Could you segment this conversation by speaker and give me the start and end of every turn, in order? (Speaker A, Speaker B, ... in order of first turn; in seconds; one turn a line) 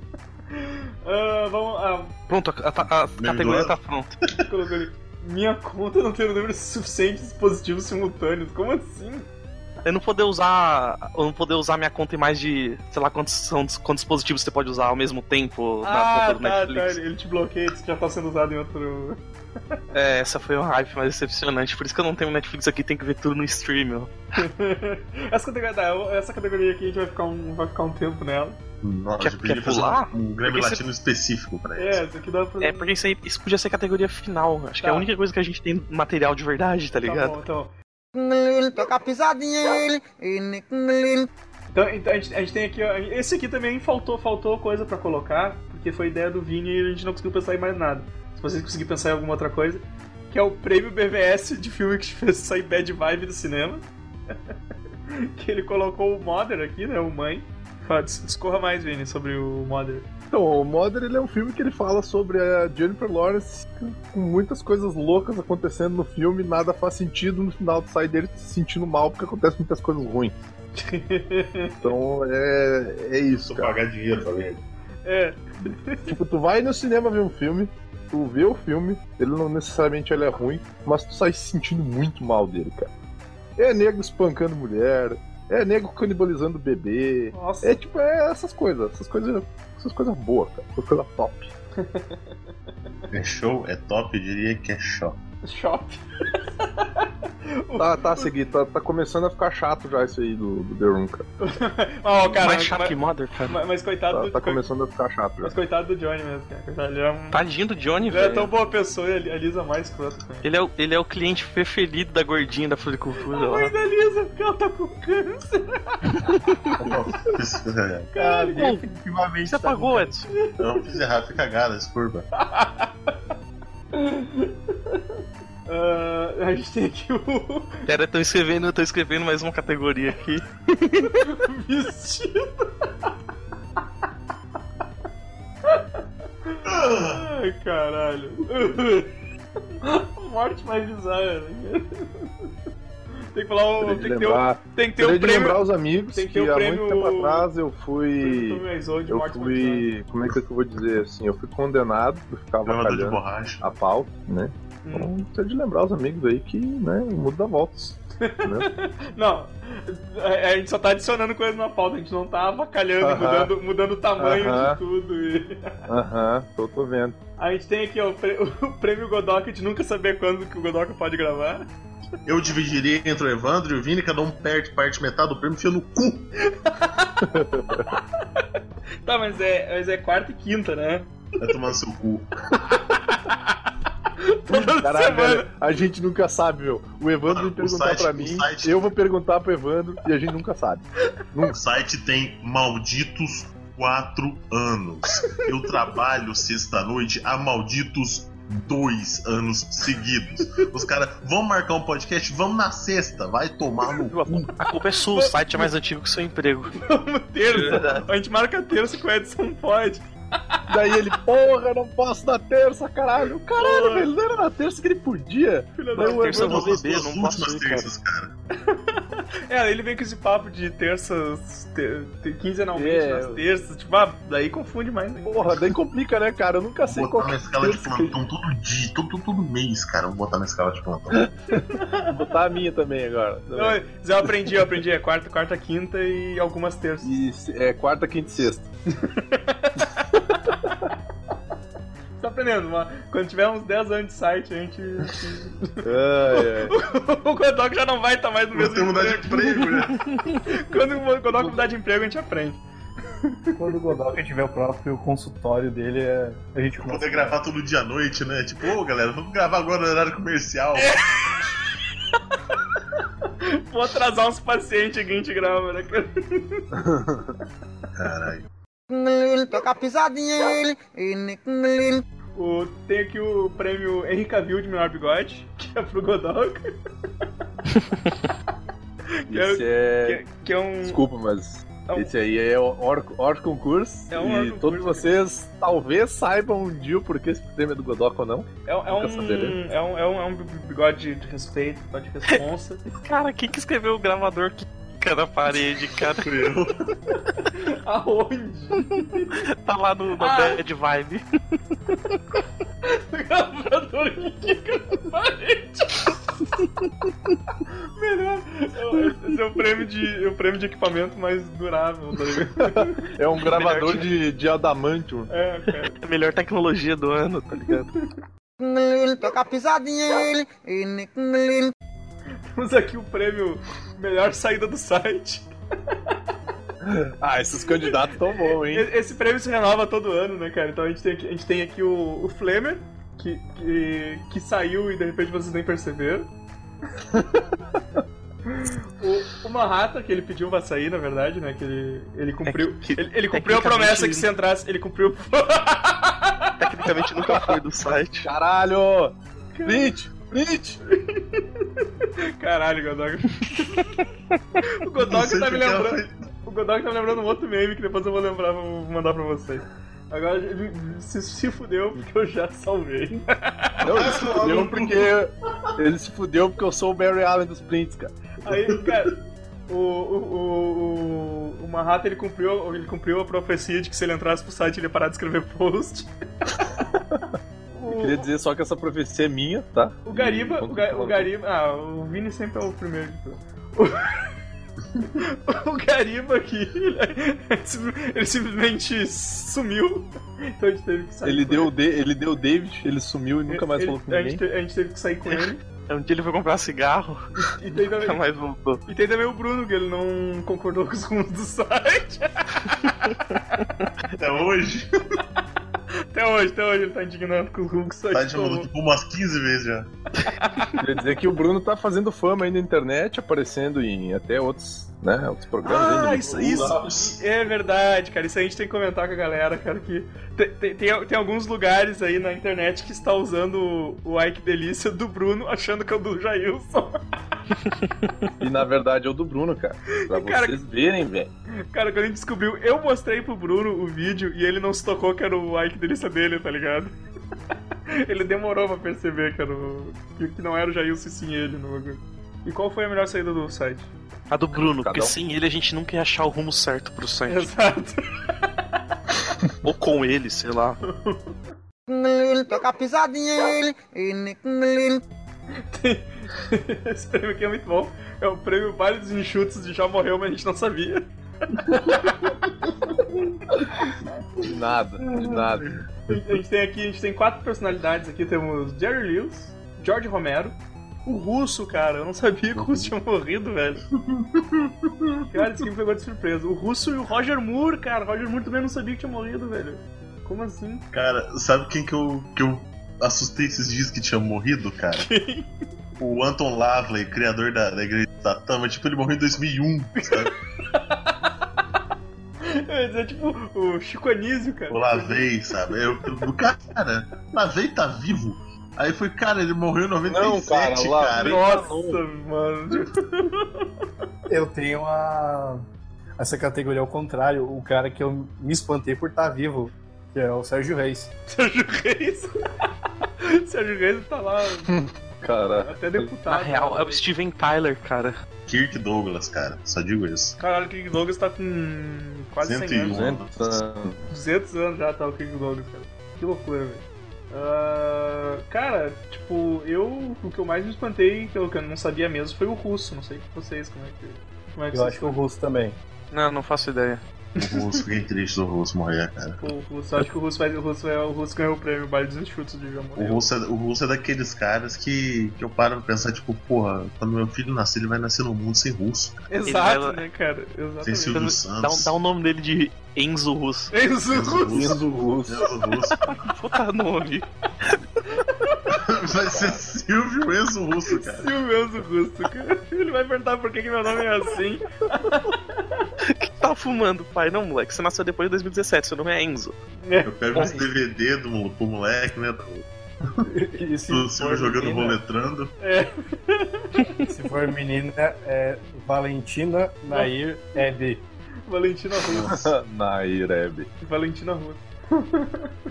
Speaker A: 0.5-2.1
Speaker B: 2.3-4.1
Speaker C: 3.2-3.8
Speaker A: 4.4-9.3
Speaker B: 9.8-17.0
Speaker A: 15.8-19.8
Speaker B: 19.9-24.1
Speaker A: 24.4-28.6
Speaker C: 28.8-32.0
Speaker B: 29.2-30.8
Speaker A: 31.8-32.9
Speaker B: 32.6-37.4
Speaker A: 34.8-35.1
Speaker A: 37.0-37.7
Speaker D: 38.1-41.3
Speaker A: 41.7-53.9
Speaker A: 55.1-60.1
Speaker E: 60.3-70.4
Speaker A: 70.8-71.9
Speaker E: 71.8-73.8
Speaker C: 73.4-74.6
Speaker A: 75.0-76.2
Speaker E: 76.1-82.9
Speaker E: 83.6-91.5
Speaker A: 87.3-87.8
Speaker A: 91.8-92.2
Speaker C: 93.1-95.2
Speaker A: 95.4-98.3
Speaker E: 97.8-101.2
Speaker A: 101.4-104.6
Speaker B: 102.3-103.6
Speaker E: 104.1-105.6
Speaker A: 105.4-107.4
Speaker B: 107.3-108.5
Speaker A: 108.1-110.5
Speaker B: 110.4-113.7
Speaker A: 113.3-116.1
Speaker C: 116.8-118.1
Speaker A: 118.1-118.8
Speaker F: 118.1-120.2
Speaker B: 118.6-118.8
Speaker B: 119.5-120.3
Speaker A: 120.3-121.0
Speaker C: 120.6-122.3
Speaker A: 122.4-123.2
Speaker A: 123.9-125.0
Speaker A: 125.7-127.8
Speaker B: 127.9-131.3
Speaker A: 131.0-133.1
Speaker A: 135.7-139.1
Speaker C: 136.7-137.3
Speaker A: 139.8-142.5
Speaker A: 143.3-147.5
Speaker E: 143.8-158.7
Speaker A: 148.2-149.9
Speaker C: 152.7-153.7
Speaker A: 154.8-155.1
Speaker A: 158.2-165.8
Speaker E: 163.0-163.5
Speaker E: 164.2-164.8
Speaker E: 165.9-167.2
Speaker A: 167.4-171.7
Speaker C: 172.3-176.3
Speaker A: 176.5-178.5
Speaker E: 177.3-177.8
Speaker A: 179.1-181.1
Speaker C: 181.4-182.3
Speaker A: 182.8-183.6
Speaker A: 184.2-185.5
Speaker E: 184.5-191.6
Speaker C: 187.3-188.9
Speaker C: 191.5-204.5
Speaker B: 204.1-206.8
Speaker A: 205.1-205.7
Speaker A: 206.8-210.6
Speaker B: 207.5-208.1
Speaker E: 210.7-216.6
Speaker A: 213.6-214.1
Speaker A: 215.8-216.7
Speaker B: 216.0-217.9
Speaker C: 216.3-218.3
Speaker A: 218.7-225.7
Speaker E: 222.7-223.4
Speaker E: 225.2-228.2
Speaker C: 226.9-231.3
Speaker A: 231.5-232.2
Speaker E: 231.8-233.8
Speaker A: 233.5-237.2
Speaker E: 237.0-238.7
Speaker A: 238.9-240.6
Speaker A: 242.2-249.9
Speaker E: 245.8-246.8
Speaker C: 248.5-250.1
Speaker A: 250.5-252.6
Speaker A: 253.2-253.8
Speaker F: 253.6-257.4
Speaker C: 256.8-261.0
Speaker A: 260.8-261.6
Speaker A: 263.0-266.8
Speaker E: 266.7-267.3
Speaker C: 267.9-268.4
Speaker D: 268.9-272.0
Speaker A: 272.4-276.7
Speaker A: 279.2-281.0
Speaker E: 279.3-280.2
Speaker E: 280.8-289.6
Speaker A: 284.1-285.1
Speaker A: 288.7-292.9
Speaker B: 292.9-296.3
Speaker C: 296.1-296.8
Speaker A: 297.4-299.4
Speaker B: 299.4-301.2
Speaker A: 300.2-300.6
Speaker A: 302.9-306.2
Speaker A: 308.0-313.0
Speaker E: 312.5-315.3
Speaker B: 313.4-314.1
Speaker A: 315.3-316.0
Speaker B: 316.0-317.9
Speaker D: 318.6-321.7
Speaker A: 322.5-325.5
Speaker E: 326.8-328.9
Speaker A: 327.8-336.3
Speaker A: 338.5-346.6
Speaker B: 342.5-344.3
Speaker B: 346.6-348.3
Speaker E: 347.2-347.6
Speaker E: 348.2-350.8
Speaker A: 349.6-350.0
Speaker A: 350.9-354.1
Speaker A: 354.6-363.9
Speaker C: 355.0-356.1
Speaker E: 363.8-368.1
Speaker C: 363.9-365.1
Speaker A: 368.4-369.2
Speaker A: 369.7-376.1
Speaker A: 377.7-378.3
Speaker E: 377.9-381.3
Speaker A: 380.1-384.3
Speaker A: 385.1-391.7
Speaker E: 391.2-394.4
Speaker A: 393.5-395.6
Speaker B: 395.9-397.2
Speaker A: 397.4-398.2
Speaker B: 398.0-398.8
Speaker A: 398.9-403.2
Speaker C: 404.1-404.9
Speaker A: 406.1-408.7
Speaker C: 408.1-409.9
Speaker A: 410.2-410.8
Speaker E: 410.8-416.8
Speaker A: 415.6-427.0
Speaker C: 416.3-417.2
Speaker E: 428.4-431.3
Speaker A: 430.0-430.6
Speaker A: 431.7-436.9
Speaker A: 437.9-443.9
Speaker B: 444.3-447.5
Speaker E: 444.7-445.2
Speaker A: 447.3-448.1
Speaker B: 449.6-450.8
Speaker A: 450.9-451.4
Speaker D: 451.9-455.0
Speaker A: 455.6-464.5
Speaker E: 464.4-465.8
Speaker C: 465.1-466.4
Speaker A: 466.1-473.8
Speaker C: 472.6-472.9
Speaker C: 474.0-475.3
Speaker A: 475.3-480.9
Speaker C: 480.9-485.1
Speaker A: 484.9-485.5
Speaker C: 486.0-490.3
Speaker A: 490.0-491.3
Speaker A: 492.4-495.8
Speaker C: 494.7-501.5
Speaker E: 500.1-502.0
Speaker A: 501.1-503.7
Speaker F: 504.3-505.6
Speaker F: 506.2-511.1
Speaker A: 511.3-512.3
Speaker A: 513.0-514.8
Speaker E: 514.7-516.1
Speaker A: 515.6-517.1
Speaker B: 516.3-518.1
Speaker C: 518.5-520.4
Speaker A: 520.4-523.0
Speaker C: 522.4-523.6
Speaker E: 522.9-524.0
Speaker A: 524.1-535.2
Speaker F: 534.7-535.8
Speaker B: 536.1-537.0
Speaker A: 537.4-537.8
Speaker C: 537.4-539.4
Speaker A: 539.4-543.3
Speaker C: 543.0-549.2
Speaker A: 549.3-551.2
Speaker B: 549.5-550.0
Speaker C: 550.8-552.0
Speaker B: 551.1-553.7
Speaker A: 553.7-554.8
Speaker C: 554.1-556.2
Speaker E: 554.5-555.5
Speaker B: 556.1-557.3
Speaker A: 558.1-558.8
Speaker C: 558.7-561.3
Speaker A: 560.9-565.9
Speaker B: 566.1-569.5
Speaker A: 569.9-570.1
Speaker C: 570.0-572.7
Speaker B: 570.4-570.6
Speaker A: 573.3-575.0
Speaker C: 573.9-575.5
Speaker A: 575.6-577.1
Speaker F: 577.1-581.0
Speaker A: 581.5-582.5
Speaker E: 582.0-583.7
Speaker A: 583.8-585.5